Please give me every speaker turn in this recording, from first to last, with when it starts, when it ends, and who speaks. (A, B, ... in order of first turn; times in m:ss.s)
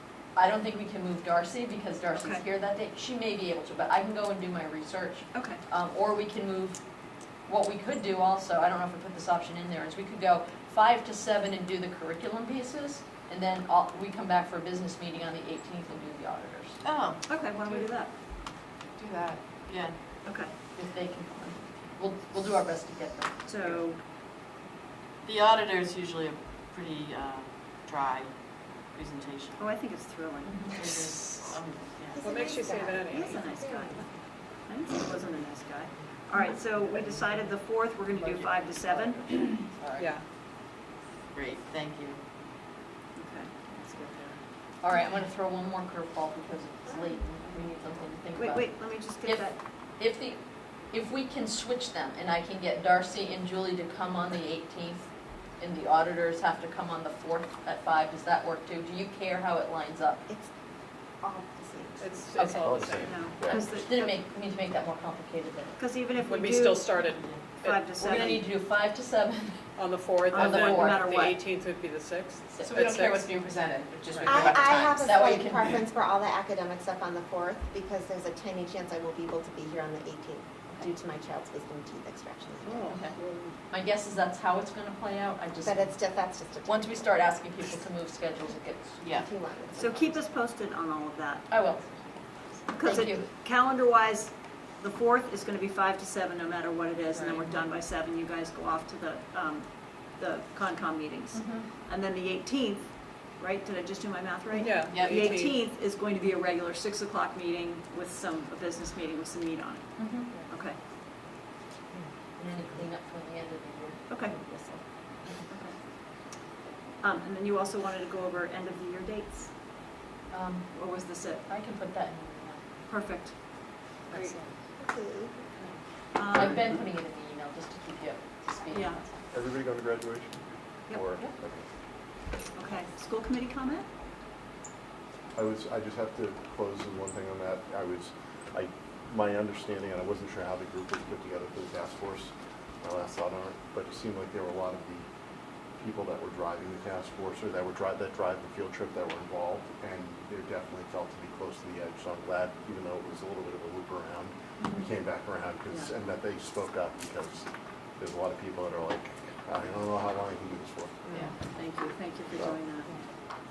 0:00.3-0:06.8 A
0:02.2-0:02.4 B
0:05.3-0:05.6 B
0:07.5-0:16.8 A
0:16.8-0:17.2 C
0:17.3-0:18.1 B
0:19.0-0:19.4 D
0:19.7-0:20.0 C
0:20.2-0:20.5 B
0:20.8-0:23.4 A
0:23.4-0:24.0 B
0:25.2-0:28.3 C
0:28.9-0:29.7 C
0:29.6-0:30.9 B
0:30.4-0:30.8 A
0:30.8-0:32.4 C
0:31.3-0:31.5 E
0:32.1-0:34.0 F
0:32.2-0:33.4 E
0:33.1-0:39.7 B
0:38.1-0:39.2 C
0:40.0-0:40.2 E
0:41.3-0:42.2 C
0:43.2-0:44.4 B
0:44.8-0:49.4 A
0:48.3-0:49.6 B
0:50.0-1:00.2 A
1:01.2-1:02.3 F
1:02.0-1:03.2 E
1:02.6-1:03.7 G
1:03.0-1:04.2 B
1:03.7-1:05.8 A
1:05.8-1:07.0 B
1:06.2-1:07.8 E
1:07.6-1:08.5 B
1:08.0-1:09.6 A
1:09.8-1:13.3 E
1:10.3-1:11.1 A
1:10.3-1:11.4 B
1:12.5-1:12.9 A
1:12.6-1:15.6 D
1:14.2-1:23.0 F
1:15.0-1:15.8 A
1:22.7-1:23.5 E
1:22.9-1:23.2 A
1:23.7-1:26.0 A
1:25.6-1:27.1 F
1:26.6-1:29.0 A
1:29.0-1:29.3 C
1:29.1-1:30.2 F
1:29.8-1:31.6 B
1:31.5-1:32.2 A
1:32.7-1:50.8 B
1:32.8-1:33.2 A
1:41.3-1:41.7 A
1:44.6-1:45.5 E
1:44.9-1:45.3 C
1:50.0-1:50.3 A
1:52.4-1:54.8 A
1:54.1-1:54.3 B
1:55.5-1:55.8 B
1:57.0-1:59.5 B
2:00.3-2:00.7 A
2:00.7-2:01.4 B
2:01.5-2:02.6 A
2:02.9-2:03.3 B
2:04.1-2:04.4 B
2:04.1-2:04.5 A
2:04.8-2:05.4 F
2:06.1-2:06.8 B
2:06.3-2:09.2 A
2:08.7-2:09.0 B
2:09.3-2:11.7 G
2:10.9-2:11.1 B
2:12.5-2:13.9 B
2:15.3-2:25.1 G
2:25.8-2:37.5 G
2:34.6-2:34.8 A
2:38.0-2:41.3 G
2:41.4-2:42.9 B
2:42.3-2:42.6 G